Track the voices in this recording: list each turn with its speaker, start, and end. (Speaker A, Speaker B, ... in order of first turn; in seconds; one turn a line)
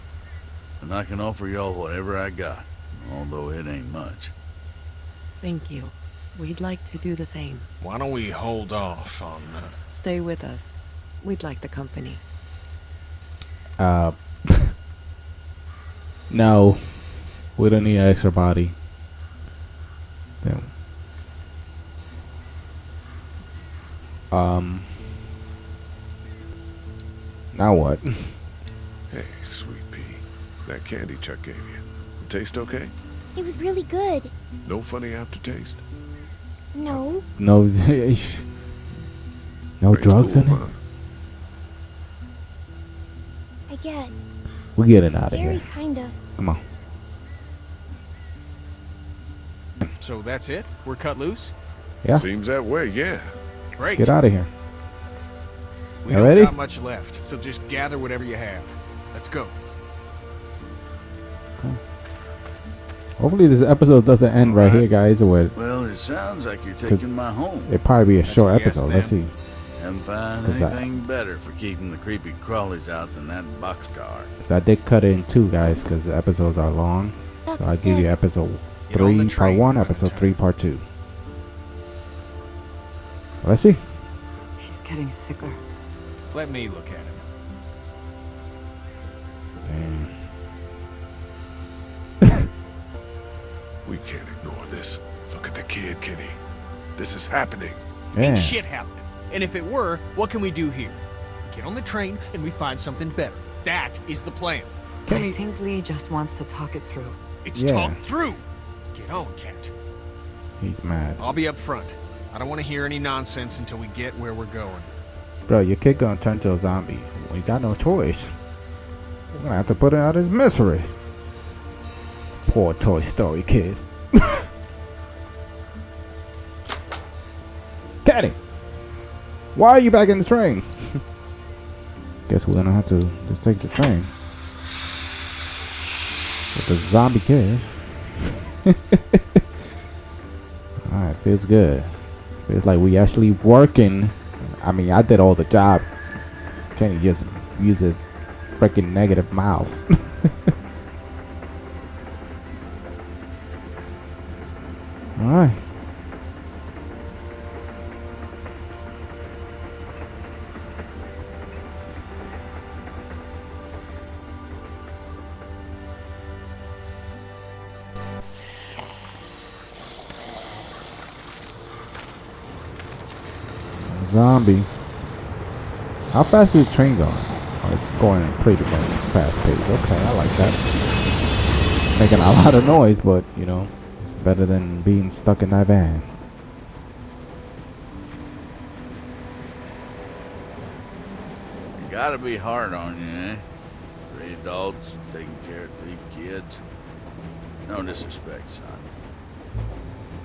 Speaker A: 0.8-4.3
Speaker B: 5.4-7.7
Speaker C: 7.8-9.8
Speaker B: 9.9-12.2
Speaker D: 13.8-14.7
Speaker D: 16.3-18.8
Speaker D: 20.4-20.7
Speaker D: 24.3-25.0
Speaker D: 27.5-28.4
Speaker E: 29.1-32.9
Speaker F: 33.4-34.3
Speaker E: 34.6-35.8
Speaker F: 36.7-37.2
Speaker D: 37.4-38.5
Speaker D: 39.8-40.6
Speaker E: 39.9-40.8
Speaker F: 43.7-44.3
Speaker D: 44.8-45.7
Speaker F: 44.9-46.1
Speaker C: 50.0-51.5
Speaker E: 52.1-53.4
Speaker C: 53.8-54.2
Speaker D: 53.9-54.5
Speaker C: 56.0-59.5
Speaker D: 56.1-56.6
Speaker D: 63.2-65.5
Speaker C: 64.4-64.9
Speaker A: 65.5-67.7
Speaker D: 67.7-69.3
Speaker C: 68.2-69.2
Speaker A: 69.8-74.3
Speaker D: 70.4-70.8
Speaker D: 74.4-80.8
Speaker F: 77.5-78.2
Speaker C: 78.9-80.4
Speaker D: 83.4-83.8
Speaker B: 84.6-85.6
Speaker C: 86.3-87.3
Speaker D: 89.6-90.1
Speaker E: 93.8-96.4
Speaker E: 97.0-97.8
Speaker D: 98.1-98.6
Speaker C: 98.2-104.7
Speaker D: 105.1-105.3
Speaker B: 105.1-107.2
Speaker C: 107.4-109.7
Speaker D: 107.5-108.0
Speaker D: 110.6-111.2
Speaker C: 111.2-114.9
Speaker D: 115.5-118.3
Speaker D: 119.3-120.9
Speaker D: 122.5-124.4
Speaker D: 128.0-128.4
Speaker D: 129.6-131.0
Speaker D: 132.3-134.1
Speaker D: 136.5-139.4
Speaker D: 140.8-141.9
Speaker D: 142.4-145.9
Speaker D: 146.8-150.3
Speaker D: 155.2-155.6
Speaker D: 173.9-174.7
Speaker D: 176.1-180.6
Speaker D: 181.9-186.1
Speaker A: 191.8-193.4
Speaker A: 194.1-196.6
Speaker A: 197.7-198.8